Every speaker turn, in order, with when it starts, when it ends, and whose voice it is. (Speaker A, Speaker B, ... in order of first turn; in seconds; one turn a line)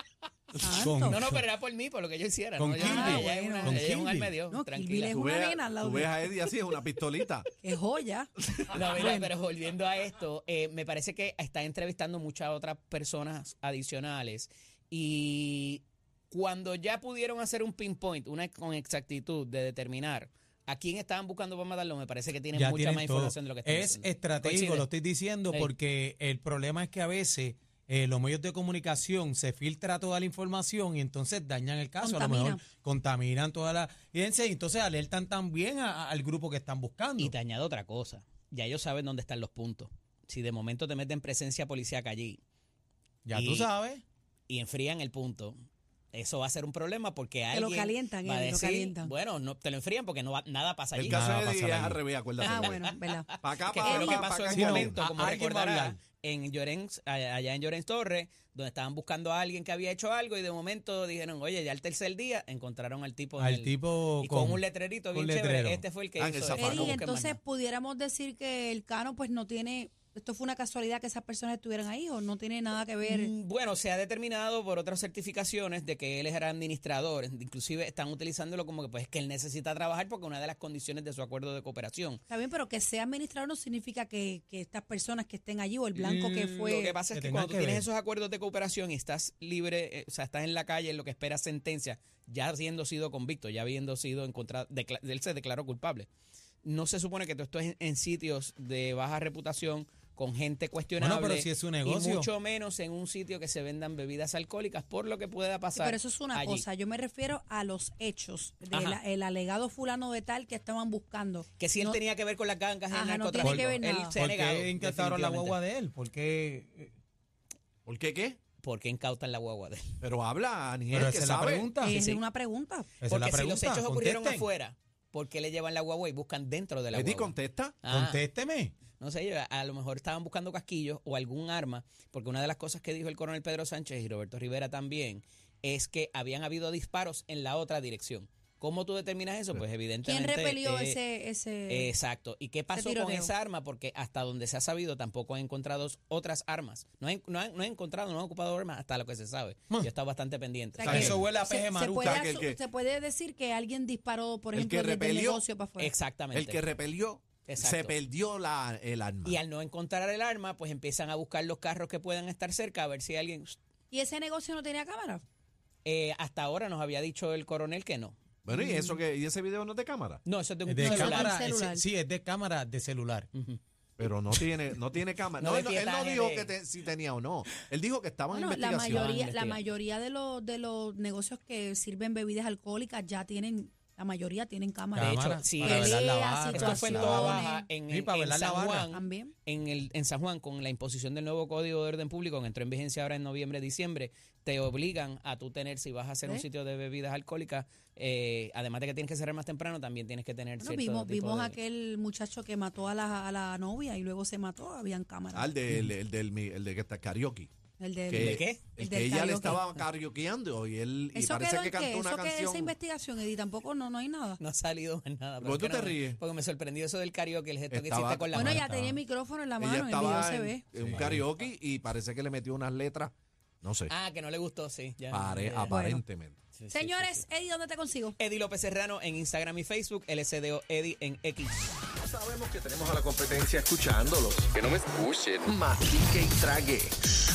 Speaker A: 0.6-1.2
Speaker B: 0.7-1.4
Speaker C: 1.0-5.2
Speaker B: 2.5-4.4
Speaker A: 2.8-3.9
Speaker A: 4.5-6.5
Speaker D: 5.1-7.5
Speaker A: 7.6-8.3
Speaker C: 8.7-24.9
Speaker B: 8.9-9.3
Speaker B: 22.5-37.3
Speaker A: 32.0-32.6
Speaker C: 37.2-42.4
Speaker B: 43.2-44.0
Speaker C: 43.3-43.7
Speaker C: 44.5-45.5
Speaker C: 46.1-51.2
Speaker A: 47.5-49.1
Speaker D: 50.9-52.9
Speaker B: 51.1-52.0
Speaker A: 52.4-54.5
Speaker C: 52.5-67.4
Speaker D: 53.4-55.0
Speaker B: 54.5-56.0
Speaker B: 63.4-65.8
Speaker D: 66.2-67.0
Speaker A: 66.6-73.3
Speaker C: 73.0-82.2
Speaker A: 82.3-87.0
Speaker C: 85.9-96.1
Speaker B: 87.1-87.9
Speaker C: 96.6-106.6
Speaker B: 101.0-102.3
Speaker A: 105.7-112.0
Speaker C: 108.7-109.0
Speaker C: 111.6-115.6
Speaker A: 112.9-114.2
Speaker B: 113.4-116.9
Speaker D: 117.8-118.4
Speaker C: 118.6-119.9
Speaker D: 120.0-121.7
Speaker B: 120.9-122.0
Speaker A: 121.8-122.9
Speaker C: 121.8-122.2
Speaker B: 123.0-124.5
Speaker C: 123.0-128.2
Speaker D: 126.9-127.8
Speaker B: 127.9-128.8
Speaker C: 128.9-141.0
Speaker A: 140.0-141.9
Speaker C: 141.7-151.2
Speaker A: 142.7-143.3
Speaker A: 150.7-155.9
Speaker B: 150.8-152.3
Speaker D: 150.8-151.2
Speaker D: 152.0-152.6
Speaker D: 154.5-155.4
Speaker C: 155.8-156.7
Speaker D: 156.3-159.4
Speaker C: 157.4-158.0
Speaker C: 159.2-163.6
Speaker A: 163.9-165.2
Speaker C: 165.8-168.2
Speaker D: 168.4-170.2
Speaker A: 168.5-169.0
Speaker C: 170.2-171.3
Speaker B: 170.7-173.3
Speaker A: 170.8-171.8
Speaker C: 173.3-173.6
Speaker D: 174.0-179.1
Speaker C: 175.4-176.5
Speaker A: 178.3-187.7
Speaker C: 178.7-179.7
Speaker B: 184.9-188.9
Speaker C: 185.0-201.5
Speaker A: 188.9-189.3
Speaker A: 200.6-205.5
Speaker D: 205.3-207.5
Speaker A: 207.8-209.7
Speaker D: 208.1-212.8
Speaker C: 208.1-208.6
Speaker A: 211.1-214.4
Speaker C: 214.4-218.6
Speaker D: 215.4-216.2
Speaker D: 217.7-218.5
Speaker B: 218.3-219.0
Speaker A: 218.4-220.6
Speaker D: 219.6-223.9
Speaker B: 220.7-221.2
Speaker C: 223.9-225.7
Speaker D: 225.1-226.4
Speaker A: 225.7-226.0
Speaker C: 226.6-227.2
Speaker A: 226.7-228.2
Speaker C: 228.2-231.7
Speaker E: 232.1-236.9
Speaker D: 233.8-234.1
Speaker D: 236.2-236.7